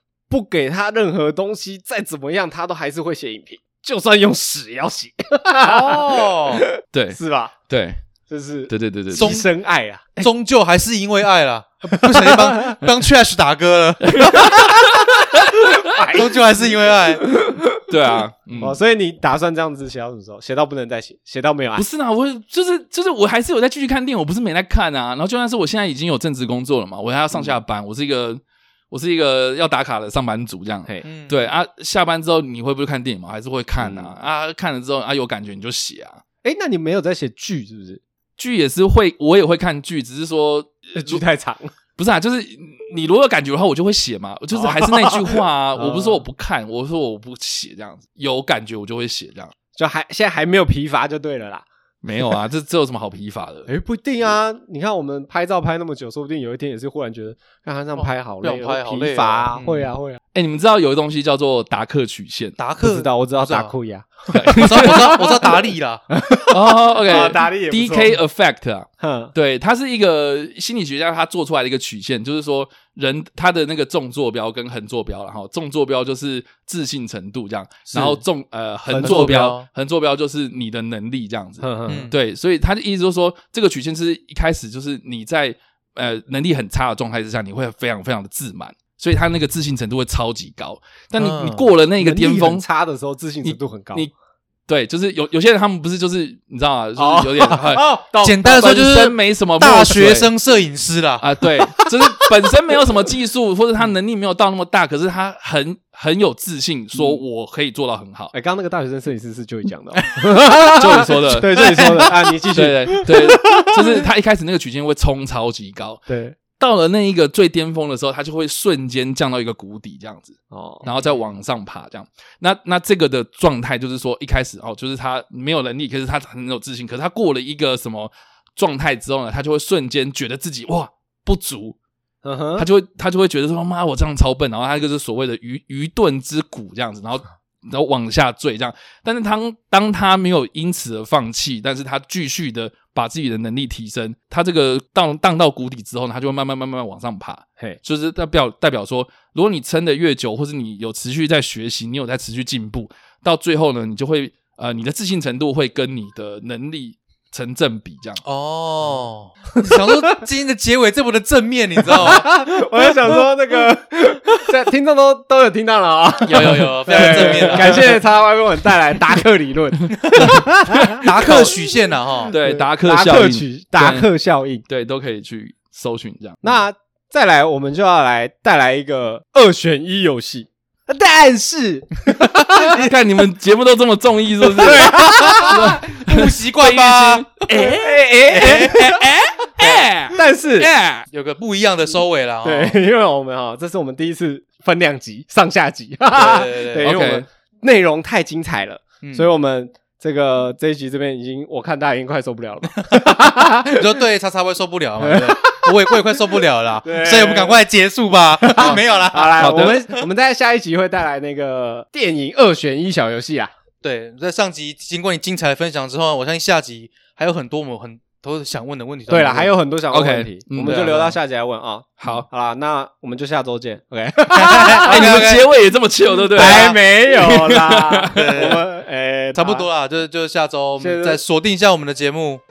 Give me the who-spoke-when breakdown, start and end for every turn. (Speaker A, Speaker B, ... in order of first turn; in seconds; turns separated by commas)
Speaker A: 0.3-7.5, Speaker B: 5.6-6.6, Speaker C: 6.9-7.2, Speaker C: 7.7-8.0, Speaker A: 8.3-10.2, Speaker C: 8.7-9.4, Speaker B: 9.1-9.5, Speaker B: 10.2-14.7, Speaker A: 11.9-12.8, Speaker C: 14.1-15.1, Speaker A: 14.4-14.9, Speaker A: 15.6-17.9, Speaker B: 15.9-17.3, Speaker C: 17.9-18.8, Speaker A: 18.6-21.9, Speaker C: 21.8-36.2, Speaker B: 31.0-31.5, Speaker A: 33.8-34.1, Speaker A: 36.4-38.0, Speaker C: 38.4-41.2, Speaker A: 40.9-41.7, Speaker C: 42.0-49.5, Speaker A: 44.6-46.2, Speaker A: 49.8-51.6, Speaker C: 52.0-53.7, Speaker A: 53.7-60.2, Speaker B: 58.0-59.9, Speaker C: 60.3-62.6, Speaker B: 62.6-63.7, Speaker A: 62.8-65.5, Speaker C: 64.3-65.1, Speaker B: 64.6-66.0, Speaker A: 66.1-68.2, Speaker C: 66.5-92.6, Speaker A: 69.0-69.3, Speaker A: 77.9-78.2, Speaker A: 78.9-79.5, Speaker B: 79.0-79.7, Speaker A: 81.6-82.1, Speaker B: 81.9-82.1, Speaker B: 91.2-91.7, Speaker A: 92.0-94.1, Speaker C: 93.4-94.1, Speaker C: 94.7-97.9, Speaker A: 97.0-98.6, Speaker B: 98.2-101.3, Speaker C: 98.4-100.3, Speaker C: 101.2-108.3, Speaker A: 106.9-107.2, Speaker A: 108.3-114.0, Speaker C: 110.3-116.0, Speaker B: 111.6-112.4, Speaker A: 116.1-116.4, Speaker C: 116.6-131.8, Speaker A: 120.5-120.8, Speaker B: 120.8-121.2, Speaker A: 132.2-132.7, Speaker C: 132.6-158.2, Speaker B: 158.2-162.4, Speaker A: 159.7-160.2, Speaker A: 161.9-171.5, Speaker C: 166.2-167.9, Speaker B: 166.2-168.0, Speaker B: 170.0-172.3, Speaker C: 170.1-171.6, Speaker C: 172.3-174.1, Speaker A: 172.3-174.6, Speaker C: 174.7-176.6, Speaker A: 176.4-182.8, Speaker C: 182.6-191.1, Speaker A: 184.6-185.8, Speaker B: 184.6-187.4, Speaker A: 187.5-189.1, Speaker B: 188.3-188.8, Speaker A: 190.1-190.7, Speaker B: 191.1-192.8, Speaker A: 192.4-204.0, Speaker B: 196.1-196.9, Speaker C: 196.8-197.3, Speaker B: 199.0-199.3, Speaker B: 203.7-210.0, Speaker A: 205.0-207.6, Speaker A: 208.4-213.5, Speaker C: 209.4-209.8, Speaker B: 213.8-219.6, Speaker A: 219.1-225.3, Speaker C: 219.9-221.0, Speaker B: 220.6-221.1, Speaker C: 222.0-222.3, Speaker B: 224.3-225.5, Speaker C: 224.6-228.3, Speaker B: 226.3-226.8, Speaker A: 226.3-229.7, Speaker B: 228.1-228.6, Speaker B: 229.3-232.4, Speaker A: 230.8-231.2